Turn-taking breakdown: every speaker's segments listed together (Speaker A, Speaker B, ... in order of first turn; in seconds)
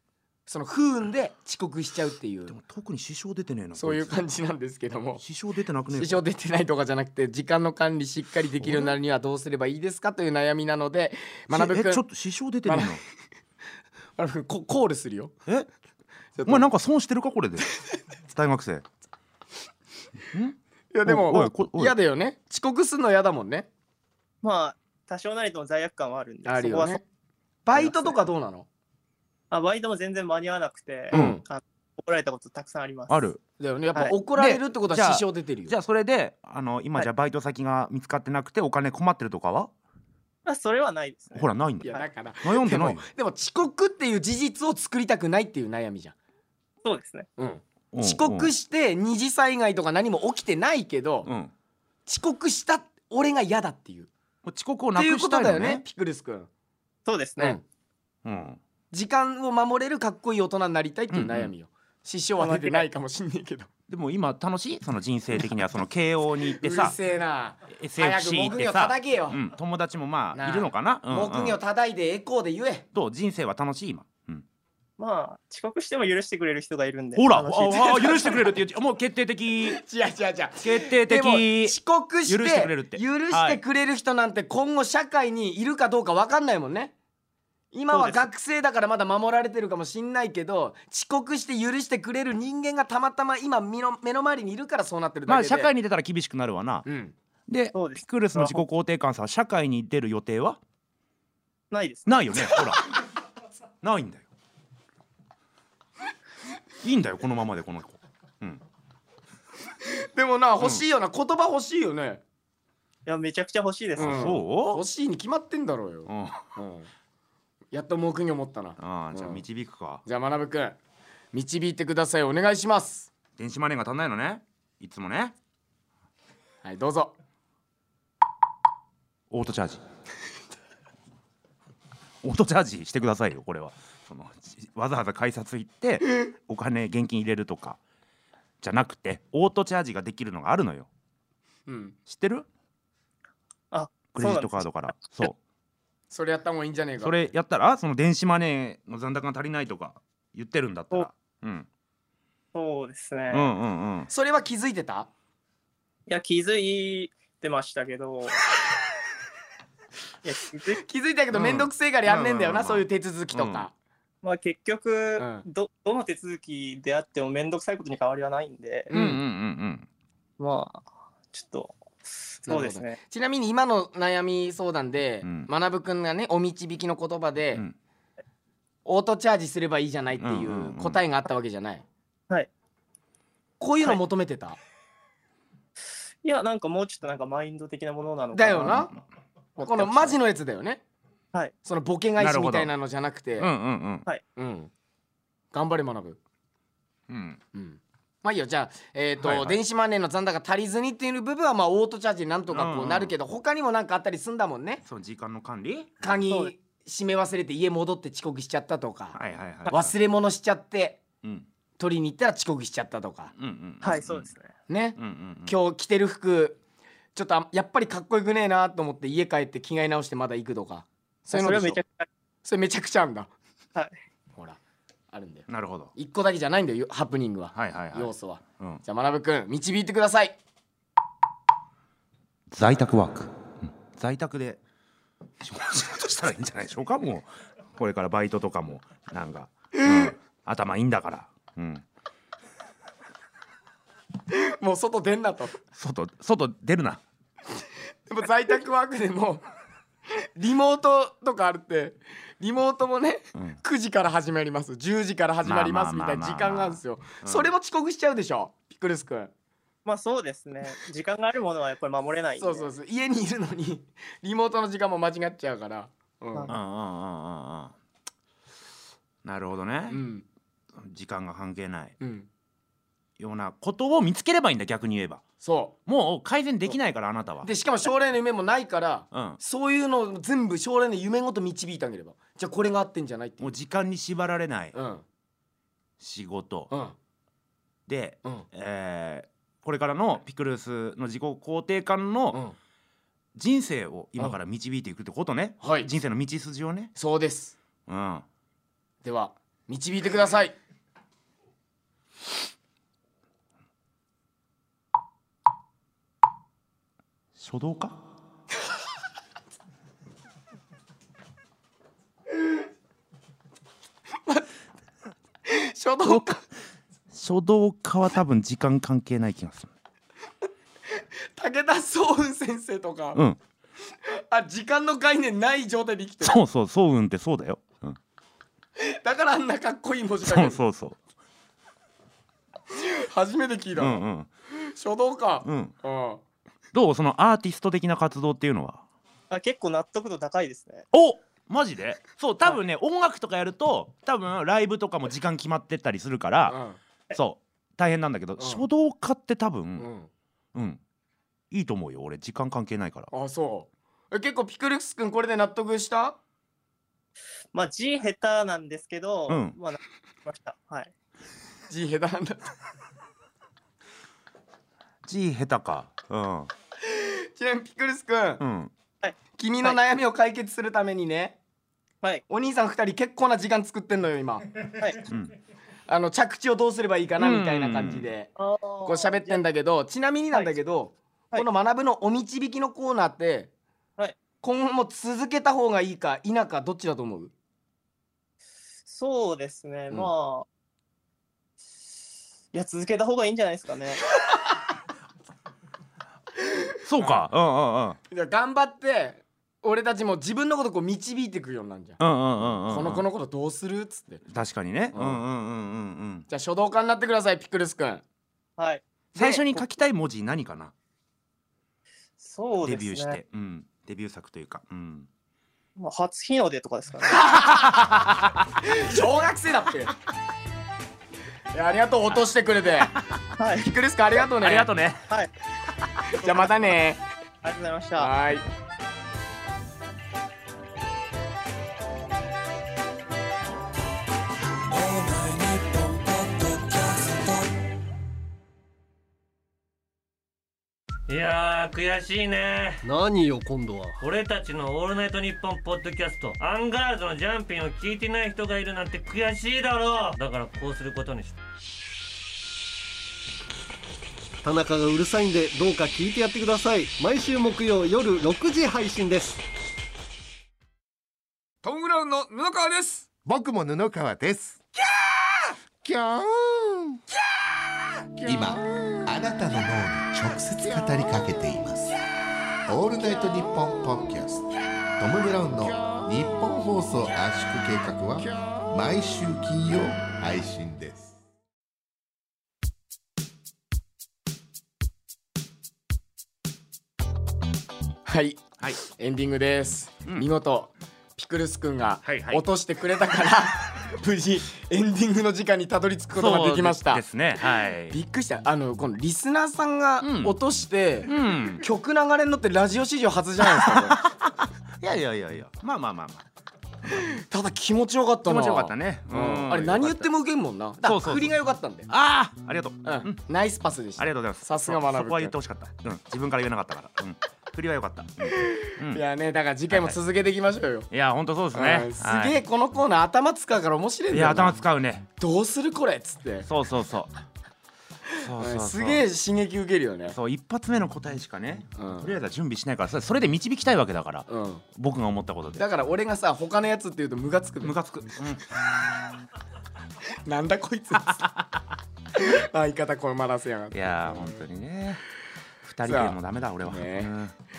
Speaker A: 0.5-2.6, 3.8-5.2, 5.9-12.0, 12.7-13.0, 14.2-15.3, 16.4-16.7, 20.9-23.7, 26.4-27.0, 27.7-28.7, 31.1-31.4, 33.6-35.7, 41.8-46.1, 47.4-51.3, 52.1-54.1, 55.0-56.5, 58.9-63.7, 66.6-69.4, 70.3-72.9, 77.7-78.5, 79.7-86.9, 87.7-95.7, 96.9-97.2, 109.9-112.2, 114.0-116.9, 117.7-119.4, 120.0-120.8, 121.3-123.1, 126.6-127.1, 141.7-142.0, 146.1-147.3, 154.1-155.1, 160.8-163.7, 165.2-165.4, 168.9-169.2, 172.5-177.6, 178.9-181.8, 183.6-184.6, 188.3-188.9, 189.6-190.8, 191.6-193.5, 194.4-194.7, 195.5-196.2, 197.6-204.8, 206.0-209.2, 209.7-211.0, 211.8-213.3, 214.7-216.6, 217.2-221.8, 222.4-223.3, 225.1-230.4, 239.8-240.1, 244.3-245.6, 248.1-249.4, 250.2-259.3, 262.4-266.6, 269.9-270.2, 272.0-272.3, 275.4-275.8, 277.4-283.5, 284.7-285.0, 286.7-286.9, 295.6-295.9, 297.0-297.6, 299.0-300.6, 315.5-316.4, 321.4-323.2, 324.3-326.4, 328.8-330.6, 332.7-334.0, 334.6-336.2, 346.5-346.8, 348.4-348.6, 349.8-350.1, 353.1-356.2, 361.7-362.4, 366.9-368.4, 369.4-371.4, 372.3-374.5, 375.9-378.3, 378.8-383.5, 384.4-387.3, 397.0-397.3, 398.1-404.2, 404.9-405.2, 406.3-408.0, 409.1-409.4, 418.6-420.0, 421.5-422.9, 423.6-424.7, 426.1-427.0, 428.0-428.4, 461.6-463.0, 488.1-497.0, 497.9-504.0, 507.0-511.9, 512.8-515.3, 518.4-520.9, 521.5-524.6, 525.2-526.5, 528.4-530.2, 531.8-532.1, 534.3-534.6, 535.6-537.7, 540.3-541.2, 542.1-544.4, 545.9-547.1
Speaker B: 2.5-4.3, 5.2-6.2, 8.6-8.9, 11.5-13.0, 16.5-17.7, 18.3-18.9, 20.3-22.0, 31.1-31.4, 33.1-33.4, 34.4-39.7, 41.3-43.1, 47.9-48.5, 51.2-51.5, 54.5-55.8, 58.2-58.6, 61.1-61.5, 63.9-67.0, 67.7-71.6, 72.9-74.5, 77.2-79.8, 80.6-83.6, 95.3-96.9, 97.5-100.6, 102.1-102.8, 103.8-104.3, 106.8-108.6, 114.0-114.8, 116.1-116.5, 118.8-120.0, 123.4-125.3, 129.3-129.8, 132.2-137.8, 138.6-140.9, 142.1-142.5, 144.1-145.4, 147.0-151.7, 153.3-154.1, 161.3-163.7, 168.9-169.9, 175.2-175.5, 180.2-181.0, 192.2-192.7, 193.4-194.1, 197.1-197.4, 199.2-199.6, 202.5-203.1, 204.8-206.1, 209.2-209.9, 213.4-214.3, 215.0-215.6, 225.5-225.9, 227.5-228.8, 232.5-234.6, 235.4-241.8, 245.7-247.0, 255.4-257.5, 266.5-267.8, 269.2-270.0, 270.8-272.0, 273.2-275.2, 275.9-277.5, 279.1-279.4, 283.4-284.8, 286.0-286.7, 287.9-292.4, 293.4-296.9, 297.9-298.2, 307.4-308.0, 316.0-316.3, 317.1-319.7, 326.2-328.0, 330.2-331.0, 333.8-334.3, 335.4-335.7, 336.7-338.8, 340.9-346.6, 347.1-349.9, 350.6-350.8, 351.5-353.1, 359.3-359.6, 365.1-366.5, 368.4-368.7, 375.1-375.3, 377.2-378.1, 396.9-398.0, 402.0-403.1, 404.3-406.3, 409.1-410.7, 412.6-415.1, 417.3-418.1, 424.4-425.1, 492.0-492.4, 496.1-498.0, 500.0-500.4, 501.1-501.6, 503.5-506.2, 506.8-507.1, 508.3-510.1, 510.8-511.3, 511.9-513.2, 514.0-519.0, 519.7-520.0, 520.9-522.4, 524.1-525.1, 526.5-527.1, 528.2-529.1, 530.1-535.6, 537.6-538.6, 541.2-541.5, 543.7-545.0, 545.6-547.3
Speaker C: 24.4-27.0, 27.8-28.1, 29.5-33.3, 40.5-42.0, 46.8-47.3, 57.1-57.6, 62.4-62.9, 75.0-78.1, 87.9-88.2, 97.7-98.7, 101.7-102.1, 113.1-114.2, 143.7-144.7, 152.5-153.5, 156.1-158.4, 160.2-160.8, 164.2-168.9, 170.4-173.0, 186.2-188.9, 189.6-190.2, 206.2-206.5, 213.8-214.5, 221.3-222.1, 259.9-262.7, 339.3-340.9, 357.5-360.9, 369.0-369.8, 378.4-379.4, 388.9-390.5, 392.5-394.0, 408.6-408.9, 412.2-413.2, 415.8-417.3, 423.4-423.7, 427.4-428.1
Speaker D: 434.7-437.5, 441.1-442.9, 444.0-451.4
Speaker E: 442.8-444.0, 454.4-459.4
Speaker F: 463.2-464.6, 465.8-467.0, 468.2-472.0, 472.7-481.1